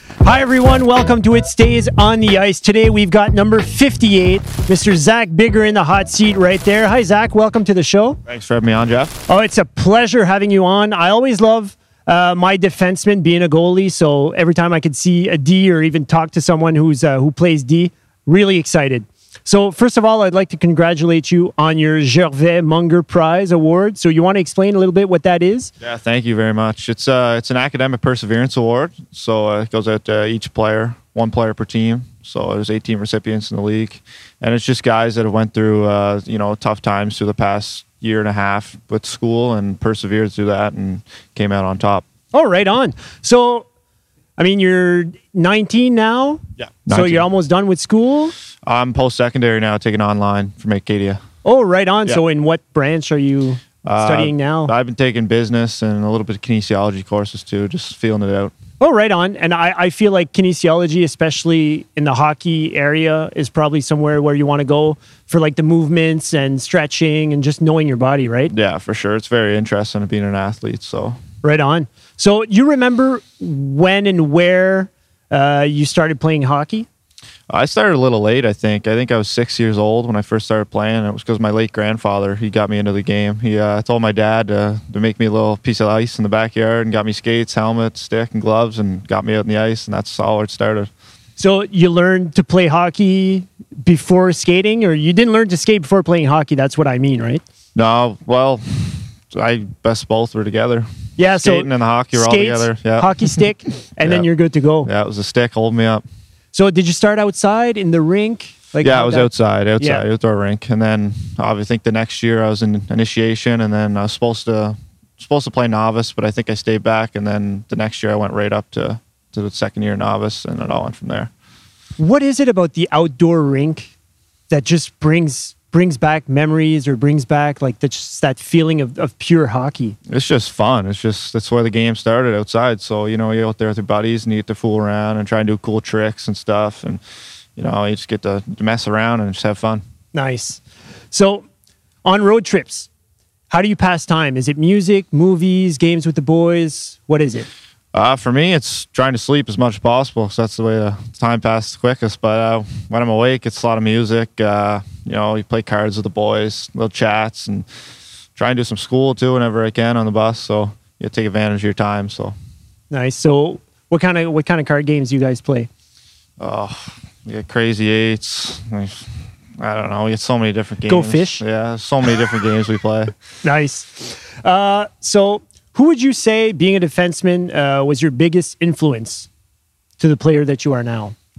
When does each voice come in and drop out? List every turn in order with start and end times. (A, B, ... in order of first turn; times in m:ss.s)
0:00.2-0:08.2 A
0:08.2-0:09.2 B
0:09.3-0:25.7 A
0:25.8-0:42.0 B
0:42.3-0:43.6 A
0:44.4-0:48.3 A
0:46.6-0:47.2 B
0:48.6-0:51.2 B
0:51.4-0:54.7 A
0:53.8-0:58.5 B
0:58.8-1:08.5 A
1:08.5-1:11.2 B
1:11.4-1:16.9 A
1:17.5-1:30.9 B
1:31.4-1:37.4 A
1:37.7-1:43.3 B
1:41.2-1:44.9 A
1:44.0-1:44.3 B
1:44.8-1:46.0 B
1:46.5-1:50.0 A
1:48.8-2:01.3 B
2:02.0-2:03.9 A
2:04.5-2:10.0 A
2:10.1-2:17.0 B
2:17.6-2:19.8 B
2:20.1-2:21.4 A
2:22.0-2:22.9 A
2:23.5-2:27.5 A
2:27.9-2:37.6 B
2:38.4-2:42.3 B
2:42.9-2:45.7 A
2:46.4-2:53.1 B
2:50.9-2:51.4 A
2:53.4-2:59.3 A
3:00.0-3:01.1 A